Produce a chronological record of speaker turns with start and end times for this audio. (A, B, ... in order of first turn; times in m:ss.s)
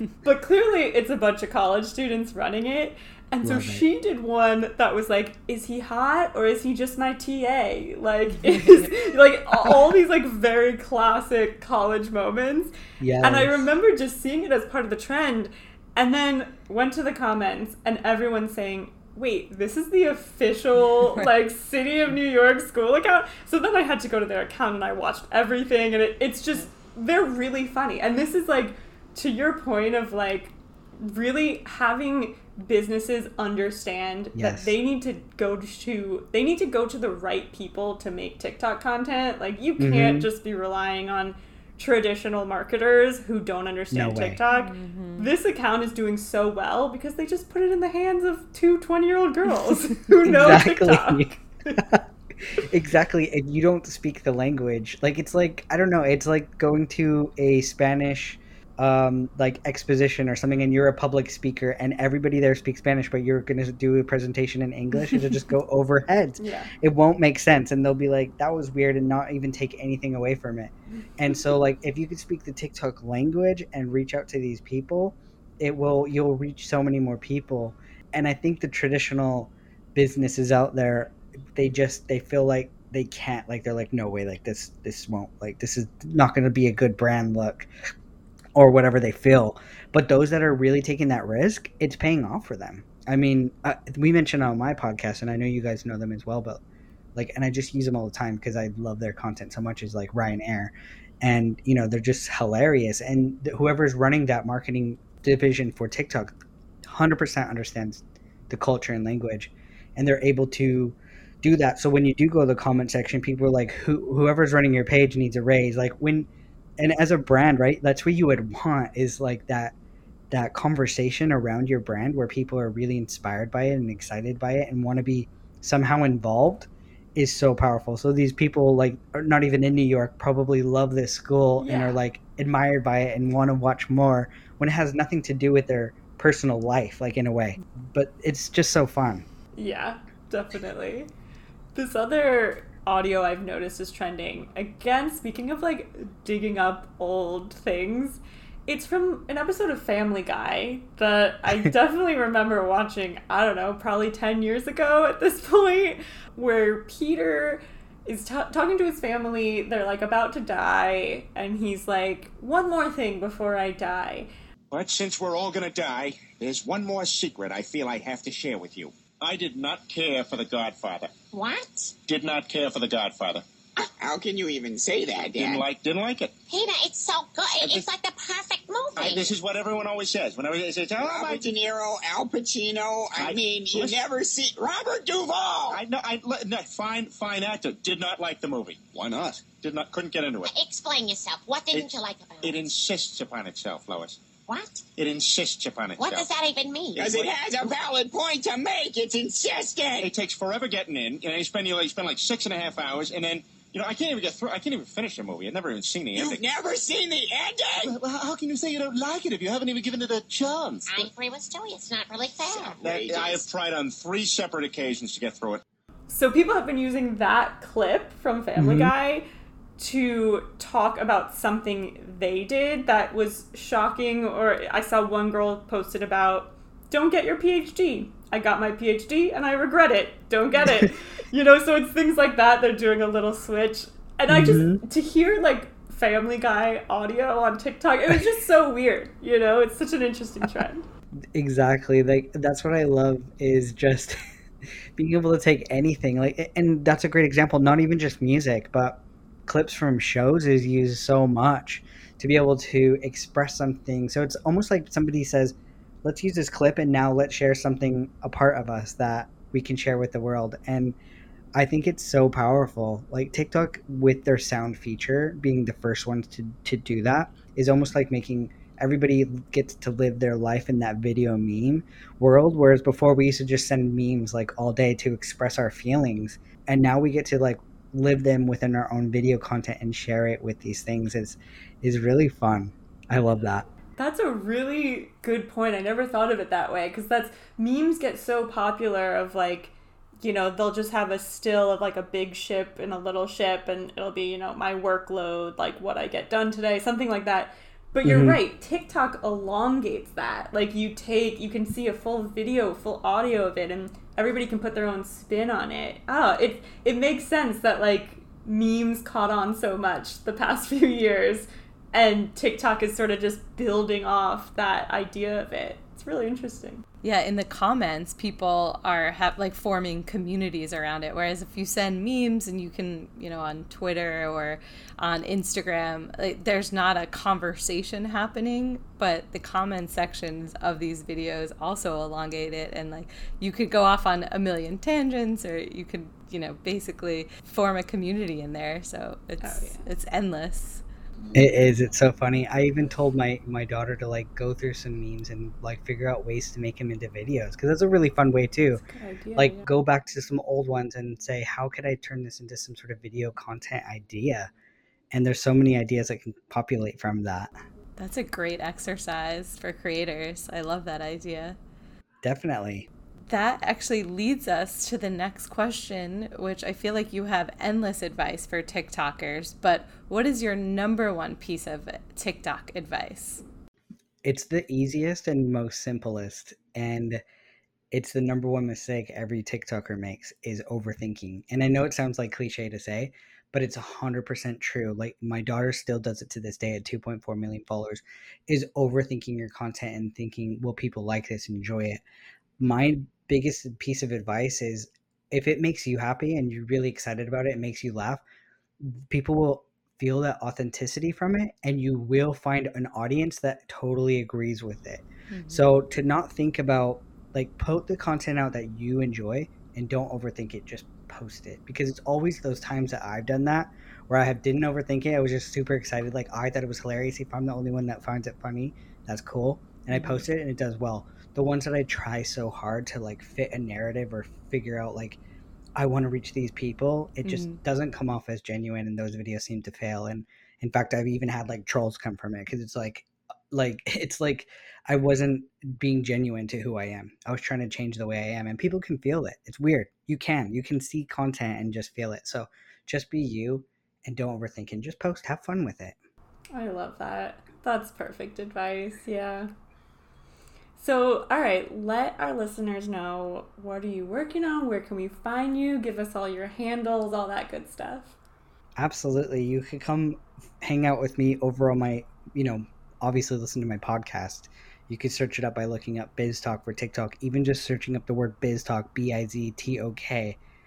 0:00.2-0:51.8 A
0:03.4-0:03.8 B
0:08.5-0:08.9 C
0:13.0-0:13.7 B
0:34.4-0:34.8 B
0:39.8-0:40.3 B
0:43.9-0:44.4 B
0:44.5-0:45.3 C
0:50.3-1:27.7 B
1:06.4-1:06.7 A
1:28.6-1:36.6 B
1:37.2-1:59.8 B
2:00.3-2:19.3 B
2:11.6-2:12.0 A
2:19.6-2:21.1 A
2:21.8-2:44.3 A
2:44.7-2:51.1 D
2:51.3-2:52.0 E
2:52.1-2:53.4 D
2:54.0-2:55.6 F
2:55.4-2:56.4 D
2:56.5-2:59.4 E
2:57.6-2:57.9 D
2:59.0-3:01.5 D
3:01.0-3:05.8 F
3:03.1-3:04.0 D
3:05.7-3:10.5 D
3:10.5-3:12.7 E
3:12.4-3:14.2 D
3:14.5-3:14.8 E
3:15.0-3:16.3 D
3:16.0-3:17.0 E
3:16.9-3:17.4 D
3:17.0-3:20.1 F
3:20.0-3:26.5 D
3:26.1-3:27.9 F
3:27.8-3:31.1 D
3:30.9-3:32.8 E
3:32.6-3:33.5 F
3:32.8-3:35.6 D
3:36.1-3:39.3 A
3:38.6-3:38.9 B
3:39.8-4:00.8 A
3:54.3-3:54.8 B
4:01.3-4:04.2 B
4:05.0-4:21.0 B
4:21.6-4:43.7 B
4:44.0-5:16.8 A
4:58.0-4:58.4 B
5:17.0-5:40.8 C
5:39.4-5:39.8 A
5:41.4-5:48.8 B
5:48.8-5:49.6 A
5:49.4-5:54.5 B
5:55.1-5:57.6 B
5:58.0-6:01.6 C
6:02.2-6:02.9 B
6:03.3-6:13.4 C
6:14.2-6:17.2 B
6:17.9-6:32.0 B
6:32.6-6:38.2 B
6:38.8-7:05.2 B
6:45.3-6:45.7 C
6:59.9-7:00.2 C
7:05.8-7:26.0 B
7:07.2-7:07.6 C
7:26.5-7:29.5 A
7:30.8-7:38.2 A
7:38.8-7:50.4 B